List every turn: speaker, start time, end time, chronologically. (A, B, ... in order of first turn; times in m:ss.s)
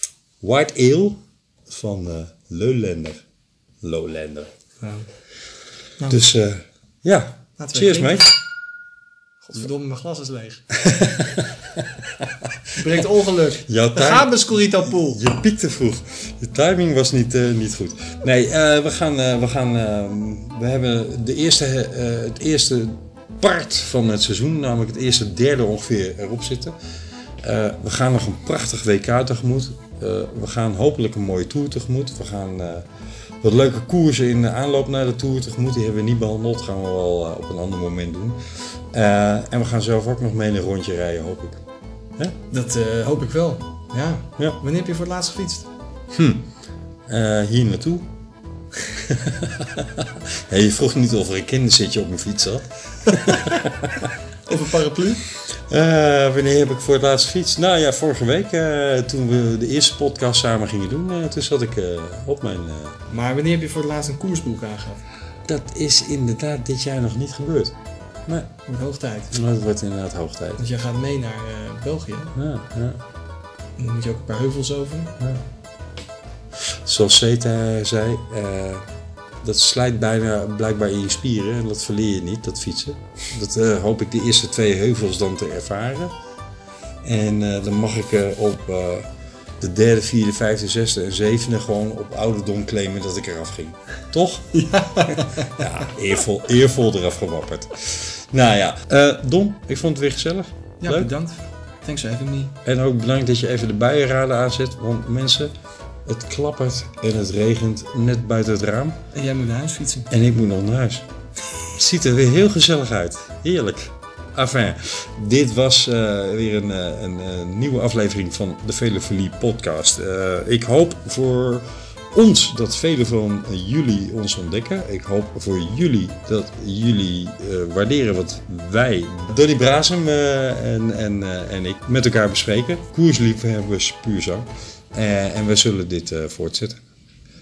0:00.4-0:03.2 A
0:03.8-0:04.5 A
0:04.8-0:05.1 B
0:06.1-0:08.3 A
0:07.6-0:08.3 B
0:09.4-0:10.7 B
0:10.8-0:13.1 A
0:12.8-0:15.2 B
0:13.7-0:26.8 A
0:27.4-0:32.9 A
0:33.4-0:38.4 A
0:38.9-0:41.6 A
0:42.5-0:45.7 B
0:46.1-0:46.5 A
0:47.1-0:48.1 A
0:49.0-0:54.2 A
0:53.3-0:53.6 B
0:54.5-0:55.2 B
0:55.4-1:03.0 A
1:03.1-1:05.0 B
1:05.5-1:08.5 A
1:08.7-1:09.4 B
1:09.3-1:10.6 A
1:10.6-1:12.3 B
1:12.4-1:13.0 A
1:13.8-1:15.2 B
1:16.8-1:18.9 A
1:19.4-1:26.1 A
1:27.0-1:29.1 A
1:29.6-1:41.1 A
1:34.5-1:35.6 B
1:40.8-1:42.6 B
1:42.6-1:45.5 A
1:46.0-1:49.0 A
1:49.1-1:50.1 B
1:50.1-1:51.1 A
1:51.7-2:16.8 A